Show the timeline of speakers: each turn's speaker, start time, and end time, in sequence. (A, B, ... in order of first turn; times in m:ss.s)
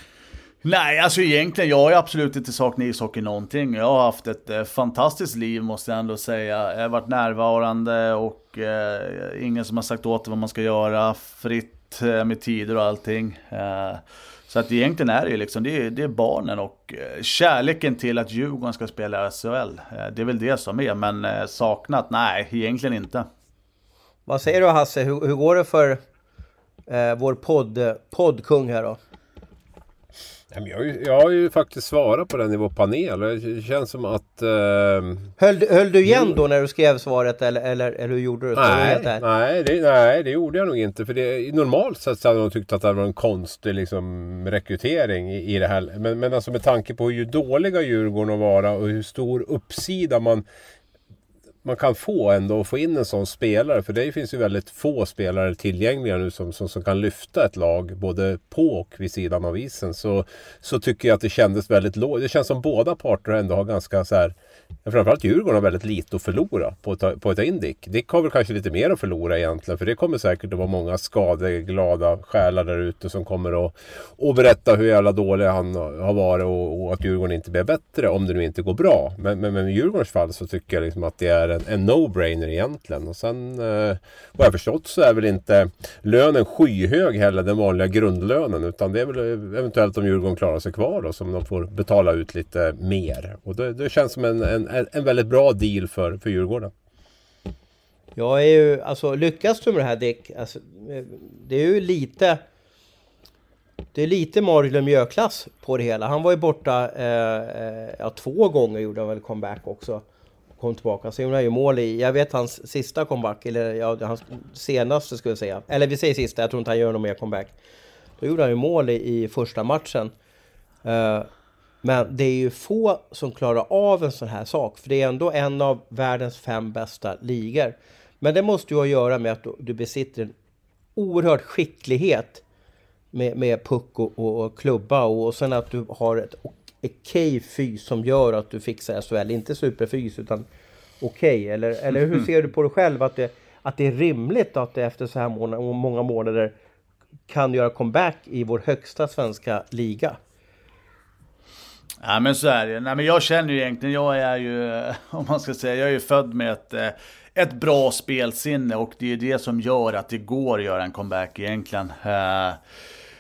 0:00.6-0:23.3 A
0:24.3-0:26.0 B
0:26.9-0:29.0 B
0:30.5-0:35.3 C
0:35.4-0:39.2 B
0:36.1-0:36.4 C
0:38.6-0:50.4 C
0:51.6-1:04.4 C
1:04.9-1:36.7 C
1:38.2-1:42.4 B
1:43.9-1:50.0 B
1:50.6-1:57.5 B
1:58.2-2:00.1 B
2:00.8-2:01.3 B
2:01.8-2:10.3 B
2:11.0-2:12.4 B
2:13.1-2:20.5 B
2:21.0-2:26.5 B
2:27.3-2:30.2 B
2:32.0-2:42.6 A